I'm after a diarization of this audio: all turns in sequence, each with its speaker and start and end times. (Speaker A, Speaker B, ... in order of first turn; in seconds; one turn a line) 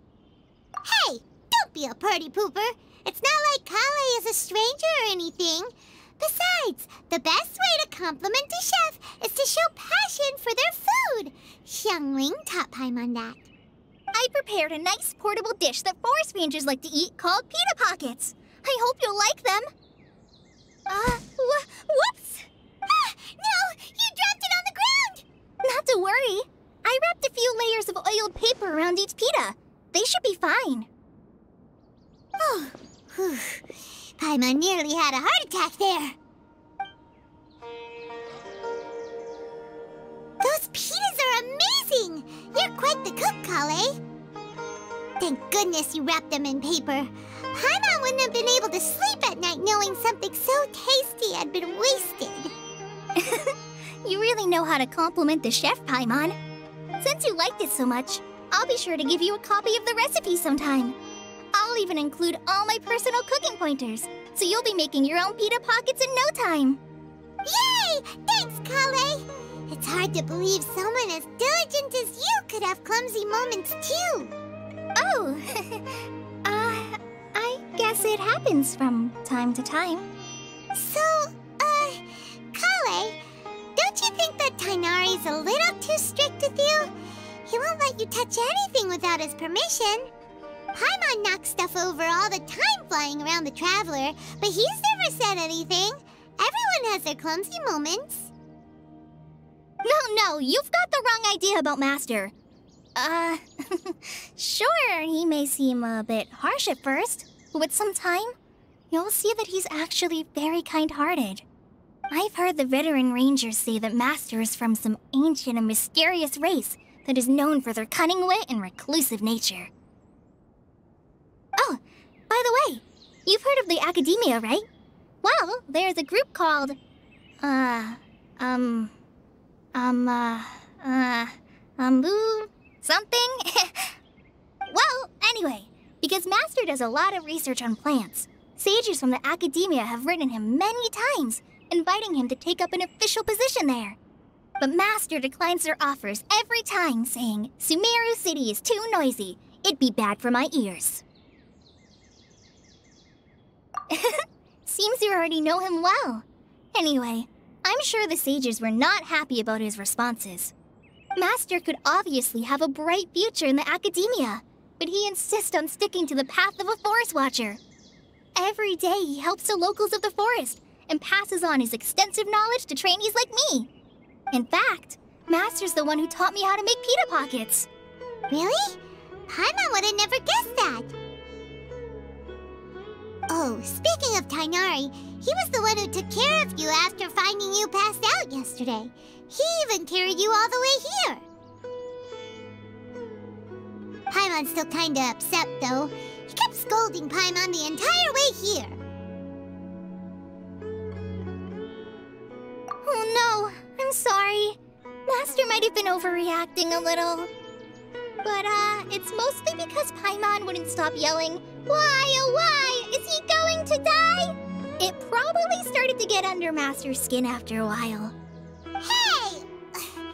Speaker A: 0.8-13.5
Speaker B: 14.1-19.7
Speaker B: 20.9-22.5
Speaker A: 22.9-25.2
Speaker B: 25.6-30.9
Speaker A: 32.4-33.7
Speaker A: 34.2-36.2
Speaker A: 40.4-44.0
Speaker A: 45.2-52.5
Speaker B: 53.2-56.4
Speaker B: 57.0-61.0
Speaker B: 61.5-66.8
Speaker A: 67.5-74.3
Speaker B: 75.0-80.1
Speaker A: 80.7-83.2
Speaker A: 83.8-86.9
Speaker A: 87.5-90.1
Speaker A: 90.7-98.3
Speaker B: 99.8-102.3
Speaker B: 103.0-108.3
Speaker B: 108.9-111.4
Speaker B: 112.1-119.7
Speaker B: 121.6-124.6
Speaker B: 125.2-126.8
Speaker B: 127.4-128.9
Speaker B: 129.7-134.0
Speaker B: 134.7-144.0
Speaker B: 144.6-151.0
Speaker B: 153.9-160.5
Speaker B: 161.2-167.6
Speaker B: 168.4-173.7
Speaker B: 174.3-177.7
Speaker A: 178.3-180.9
Speaker A: 183.3-191.2
Speaker A: 194.1-198.8
Speaker B: 202.8-207.3
Speaker B: 208.2-218.1
Speaker A: 218.8-219.9